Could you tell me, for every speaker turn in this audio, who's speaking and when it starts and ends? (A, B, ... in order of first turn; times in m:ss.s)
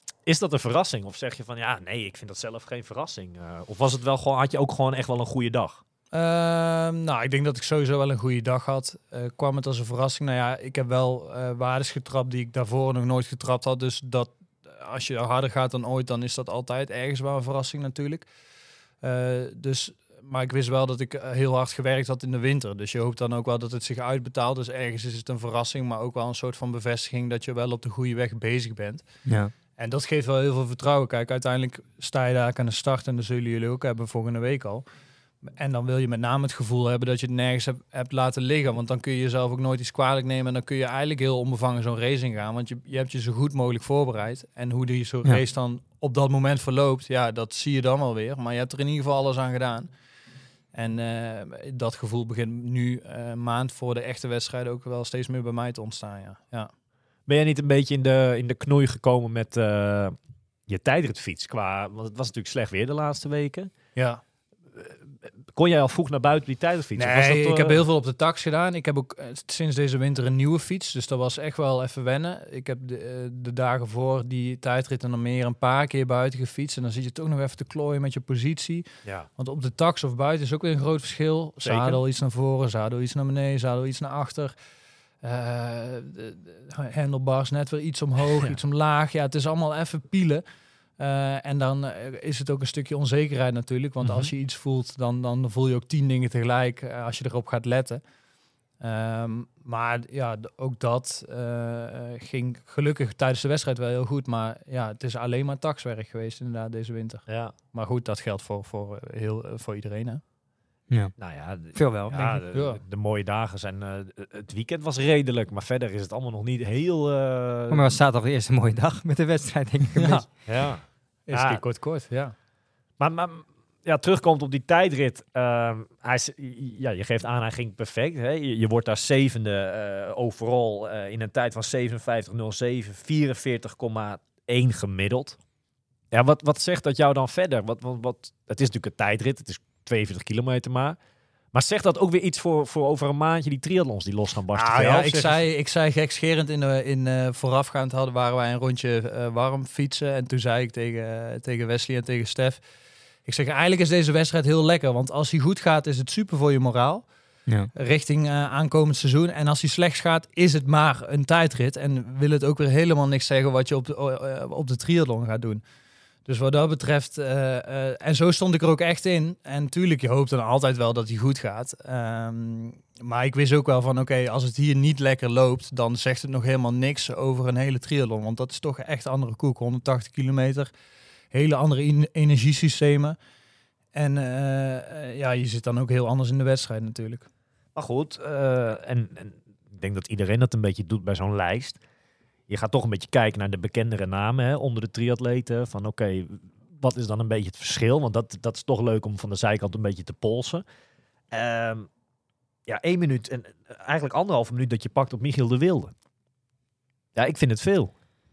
0:00.2-0:05.8 A
0:06.1-0:18.3 B
0:19.0-0:34.8 B
0:29.2-0:29.5 C
0:35.4-0:49.9 B
0:50.7-0:56.7 B
0:57.2-1:00.2 A
1:00.7-1:03.7 A
1:03.9-1:04.2 B
1:04.7-1:07.8 A
1:07.0-1:24.5 B
1:21.6-1:22.0 A
1:25.2-1:30.4 B
1:31.0-1:38.0 B
1:34.0-1:34.3 A
1:38.8-1:50.2 B
1:47.3-1:47.5 A
1:50.9-1:52.4 C
1:51.2-1:57.9 A
1:52.5-1:52.8 B
1:57.7-2:00.3 C
1:59.9-2:02.3 B
2:00.4-2:01.6 A
2:03.0-2:15.4 A
2:16.1-2:21.0 A
2:21.5-2:25.4 A
2:24.5-2:32.6 B
2:33.2-2:37.1 B
2:37.7-2:45.6 B
2:46.2-3:00.7 B
3:01.3-3:03.2 B
3:03.9-3:07.3 B
3:07.7-3:11.8 A
3:12.5-3:20.6 A
3:21.3-3:21.9 A
3:22.7-3:25.9 A
3:27.1-3:28.0 A